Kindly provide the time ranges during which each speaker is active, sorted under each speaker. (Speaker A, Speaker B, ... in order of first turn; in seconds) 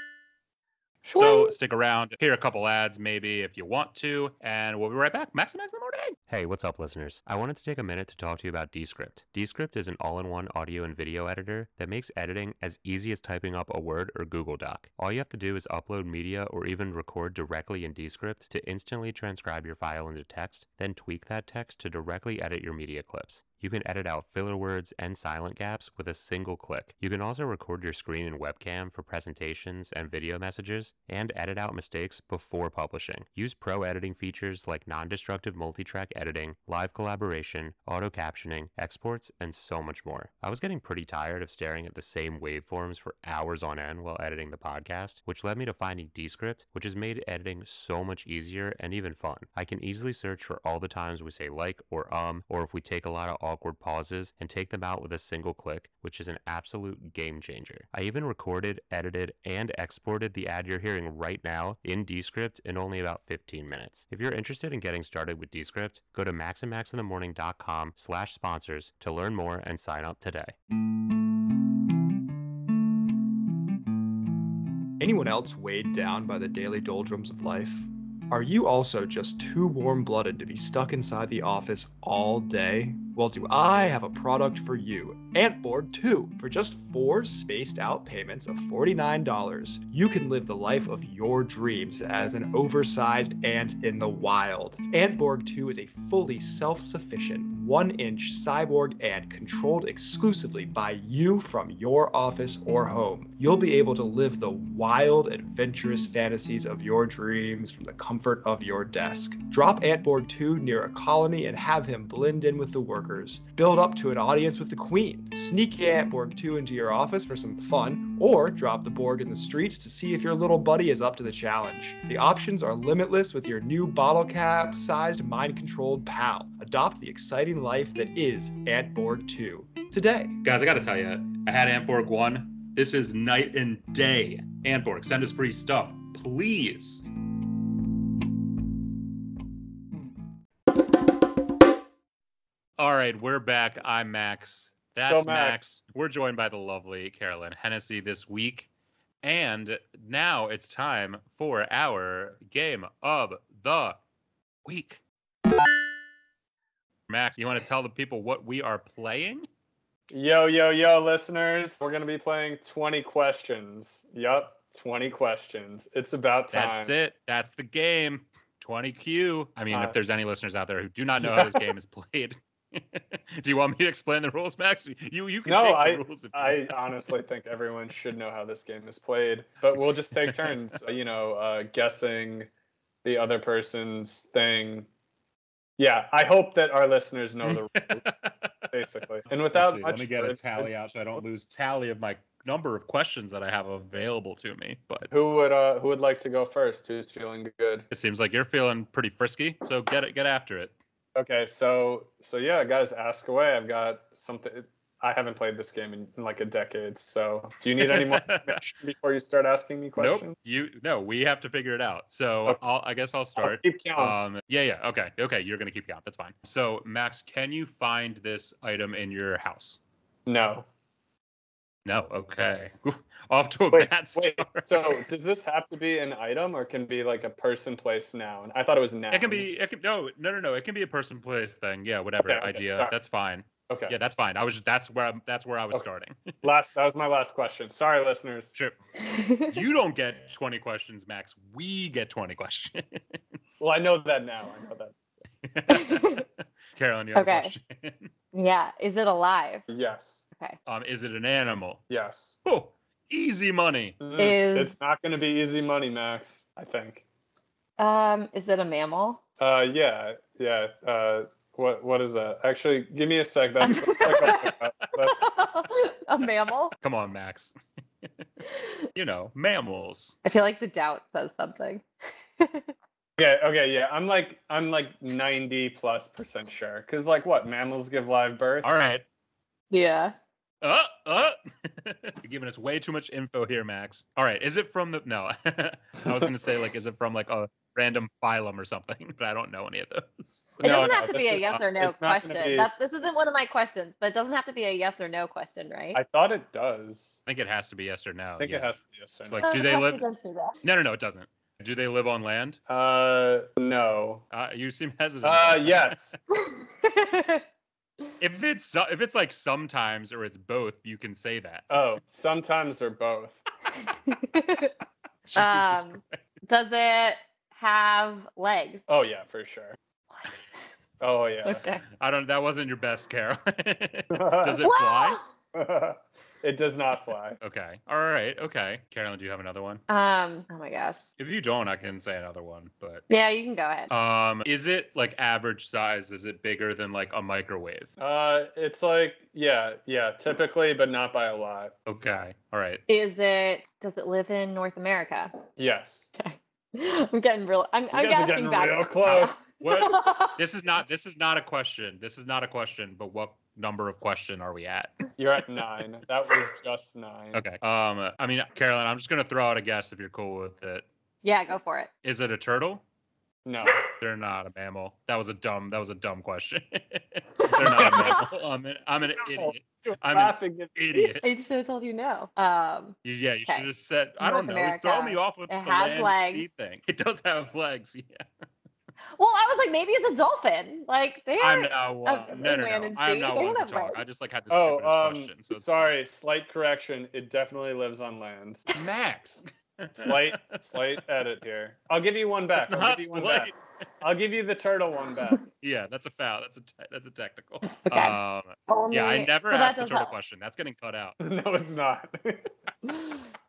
Speaker A: 1.0-1.6, 145.0-145.7, 160.1-166.9, 169.7-170.0, 171.2-171.7, 175.5-182.5, 183.0-184.9, 185.8-188.1, 188.7-190.7, 195.1-197.9, 201.2-210.3, 213.4-214.2, 220.3-220.7, 223.7-229.5, 232.3-232.9, 233.7-233.9, 236.4-238.5, 243.6-245.0, 249.7-250.2, 251.9-252.4, 254.0-257.1, 259.4-265.3, 273.2-278.7, 290.6-292.7, 295.9-297.2, 298.4-299.5, 302.7-304.3, 305.2-306.2, 311.7-313.4, 318.9-319.8, 321.0-321.6, 324.1-324.7, 325.5-327.4, 338.0-341.8, 345.6-346.1, 347.9-349.4, 355.2-357.4, 363.4-363.8, 367.6-368.2, 369.1-370.8, 384.5-388.7, 390.0-395.4, 401.2-402.5
Speaker B: 1.1-6.2, 130.4-137.1, 142.8-148.7, 149.2-154.0, 154.7-155.0, 157.1-159.5, 166.5-176.7, 180.1-180.6, 187.4-188.7, 189.5-195.1, 197.9-200.7, 207.8-208.7, 210.0-219.8, 221.8-224.9, 229.1-236.3, 239.5-243.6, 245.4-248.1, 250.7-251.8, 252.4-254.0, 266.8-268.1, 268.9-270.2, 278.6-279.0, 280.6-291.6, 297.3-298.7, 299.3-300.0, 300.6-302.6, 304.3-306.0, 308.2-311.7, 315.3-316.2, 322.0-325.2, 327.4-329.8, 331.2-333.1, 333.9-337.9, 341.9-342.8, 349.1-355.1, 357.3-360.9, 362.0-362.8, 363.9-371.2, 373.1-378.2, 381.4-385.9, 388.7-390.8, 392.6-393.6, 395.6-401.2
Speaker C: 6.3-70.5
Speaker D: 75.0-130.4
Speaker E: 239.0-239.6, 245.7-246.2, 247.2-247.5, 248.3-249.7, 254.2-254.8, 257.8-259.2, 263.6-264.5, 265.1-266.7, 270.2-271.9, 272.4-272.7, 279.7-280.1, 290.6-296.0, 299.4-300.6, 306.4-307.4, 313.9-314.7, 315.4-318.8, 321.4-321.8, 324.6-325.3, 329.9-331.1, 333.1-333.9, 342.9-345.3, 346.2-350.4, 361.2-361.9, 367.7-368.1, 371.0-373.7, 374.2-376.4, 379.2-384.0, 397.8-400.1